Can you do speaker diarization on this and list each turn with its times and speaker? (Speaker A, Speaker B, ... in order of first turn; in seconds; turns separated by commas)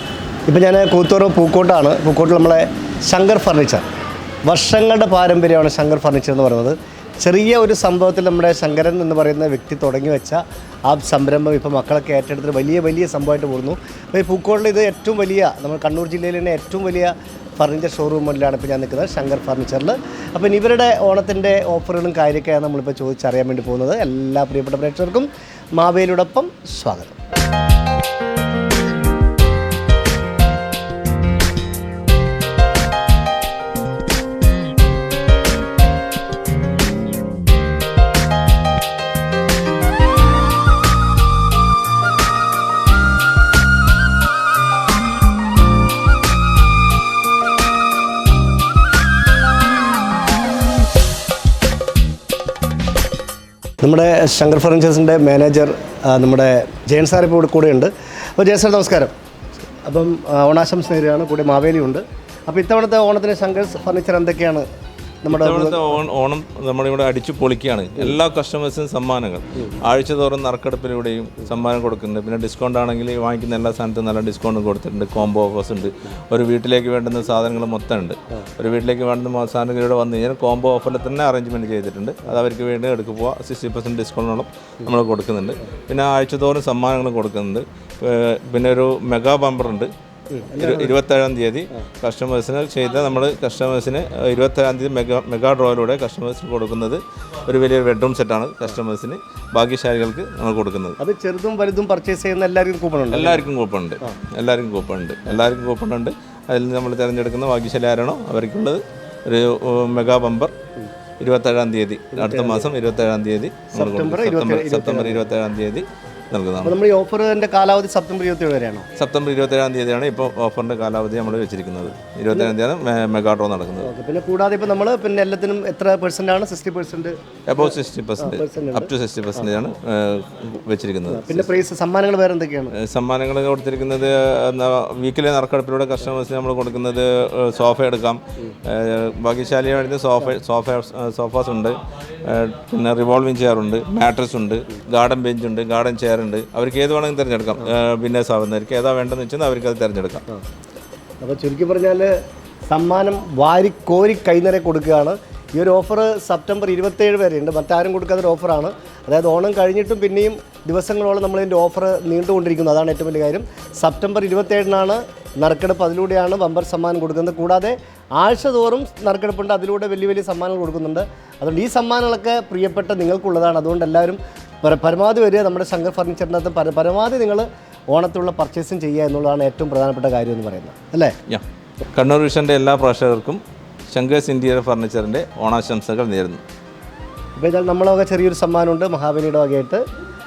Speaker A: 0.5-3.9, Speaker A: 4.5-27.2, Speaker A: 53.8-59.1, Speaker A: 59.8-64.7, Speaker A: 65.2-66.0, Speaker B: 65.3-89.9, Speaker A: 90.3-91.0, Speaker B: 90.6-101.0, Speaker A: 101.0-103.4, Speaker B: 103.1-110.5, Speaker B: 111.2-116.8, Speaker A: 112.2-112.7, Speaker A: 113.7-115.3, Speaker A: 116.6-118.9, Speaker B: 119.0-123.9, Speaker A: 123.8-129.5, Speaker B: 127.5-131.6, Speaker A: 131.1-132.7, Speaker B: 132.7-150.2, Speaker A: 151.2-152.2, Speaker A: 152.7-181.2, Speaker B: 181.3-186.4, Speaker A: 187.4-189.8